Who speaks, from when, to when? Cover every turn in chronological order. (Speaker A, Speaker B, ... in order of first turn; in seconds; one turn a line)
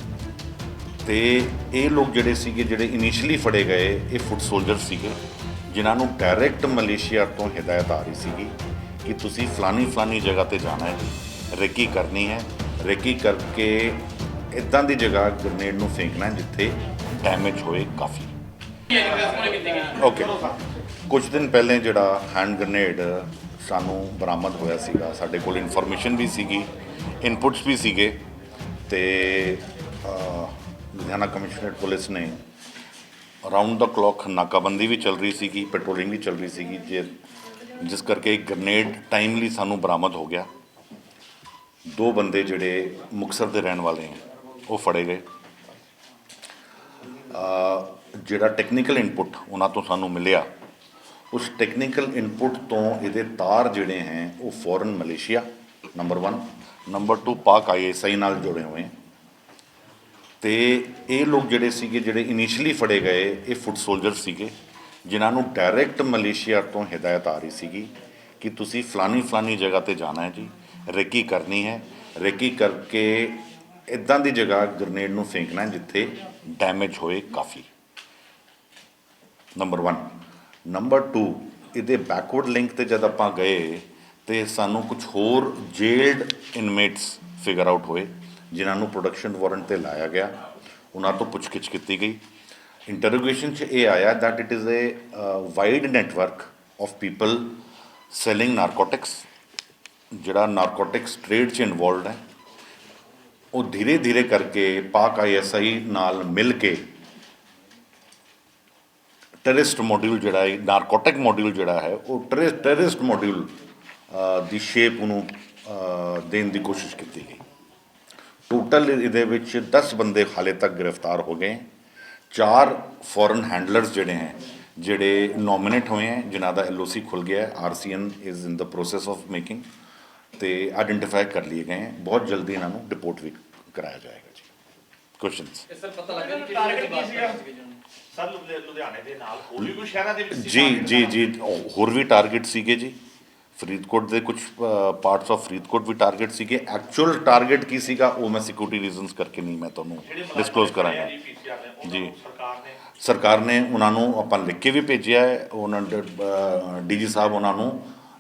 Speaker A: 1.0-18.3
Speaker B: 18.9-20.0
Speaker C: 18.9-19.8
Speaker A: 20.0-20.4
Speaker A: 21.1-28.2
Speaker A: 28.9-32.4
Speaker A: 33.4-37.1
Speaker A: 37.8-40.5
Speaker A: 41.9-45.3
Speaker A: 47.2-50.5
Speaker A: 51.3-58.9
Speaker A: 60.4-64.5
Speaker A: 65.0-77.7
Speaker A: 79.5-90.4
Speaker A: 90.9-92.2
Speaker A: 92.9-97.6
Speaker A: 98.1-99.2
Speaker A: 100.1-102.2
Speaker A: 103.5-106.9
Speaker A: 109.4-113.6
Speaker A: 114.1-117.4
Speaker A: 118.5-121.7
Speaker A: 122.3-129.7
Speaker A: 130.3-134.5
Speaker A: 135.2-135.7
Speaker B: 135.7-137.8
Speaker C: 136.0-137.5
Speaker C: 138.1-141.2
Speaker A: 140.3-143.0
Speaker A: 143.6-151.2
Speaker C: 150.0-152.8
Speaker A: 151.8-152.1
Speaker A: 153.0-157.9